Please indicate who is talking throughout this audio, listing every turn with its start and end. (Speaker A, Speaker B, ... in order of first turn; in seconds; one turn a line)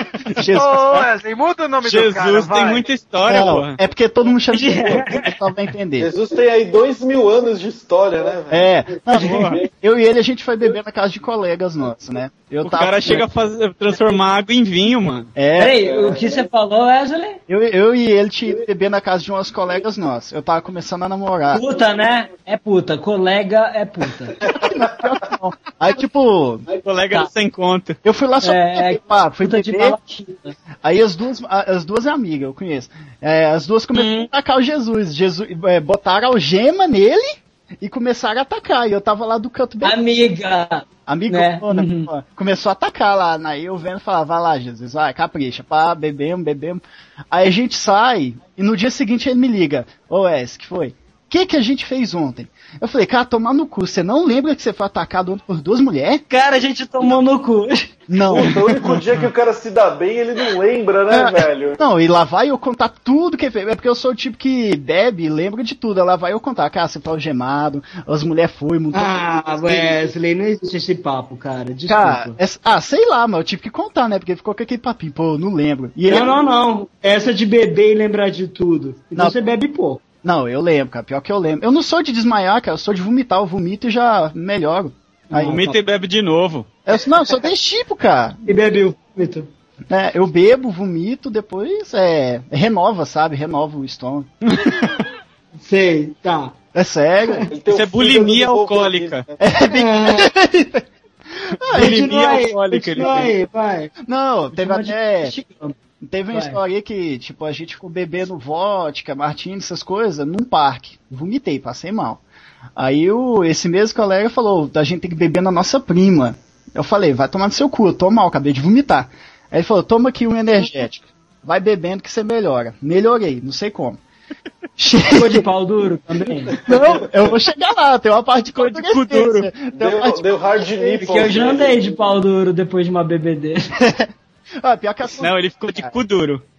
Speaker A: 0.2-0.8
Speaker B: 0.3-1.0
Speaker C: 0.5-2.9
Speaker B: 1.8-3.8
Speaker A: 3.3-6.1
Speaker D: 4.5-5.4
Speaker E: 6.0-9.7
Speaker A: 8.5-13.2
Speaker B: 9.2-9.6
Speaker B: 12.6-15.3
Speaker A: 15.4-15.8
Speaker D: 15.6-17.4
Speaker E: 15.7-16.4
Speaker A: 17.5-21.6
Speaker D: 21.5-24.4
Speaker E: 24.4-25.1
Speaker A: 24.5-26.6
Speaker B: 26.8-28.0
Speaker A: 28.0-30.0
Speaker D: 28.4-30.6
Speaker A: 30.8-40.0
Speaker D: 33.9-34.3
Speaker D: 39.8-42.1
Speaker A: 41.1-56.2
Speaker D: 56.3-58.4
Speaker A: 58.1-59.3
Speaker E: 58.2-61.8
Speaker A: 61.1-69.9
Speaker D: 68.9-72.4
Speaker A: 71.9-76.3
Speaker D: 76.1-80.0
Speaker A: 80.2-85.8
Speaker D: 85.3-85.6
Speaker B: 85.4-86.7
Speaker A: 86.9-88.5
Speaker D: 88.5-89.5
Speaker A: 89.9-94.7
Speaker B: 94.5-94.9
Speaker D: 95.5-96.5
Speaker A: 96.7-97.5
Speaker E: 97.5-99.3
Speaker B: 97.7-99.2
Speaker A: 99.4-100.9
Speaker D: 99.7-100.3
Speaker A: 101.5-102.2
Speaker B: 101.7-103.3
Speaker D: 101.7-103.9
Speaker A: 104.0-105.3
Speaker D: 104.5-105.8
Speaker A: 106.0-112.2
Speaker D: 106.3-106.6
Speaker A: 112.8-124.0
Speaker A: 124.8-125.5
Speaker D: 125.1-126.7
Speaker A: 126.7-130.3
Speaker E: 126.7-127.3
Speaker B: 128.5-129.6
Speaker E: 129.6-132.2
Speaker D: 131.0-133.8
Speaker A: 133.8-135.9
Speaker B: 135.2-136.4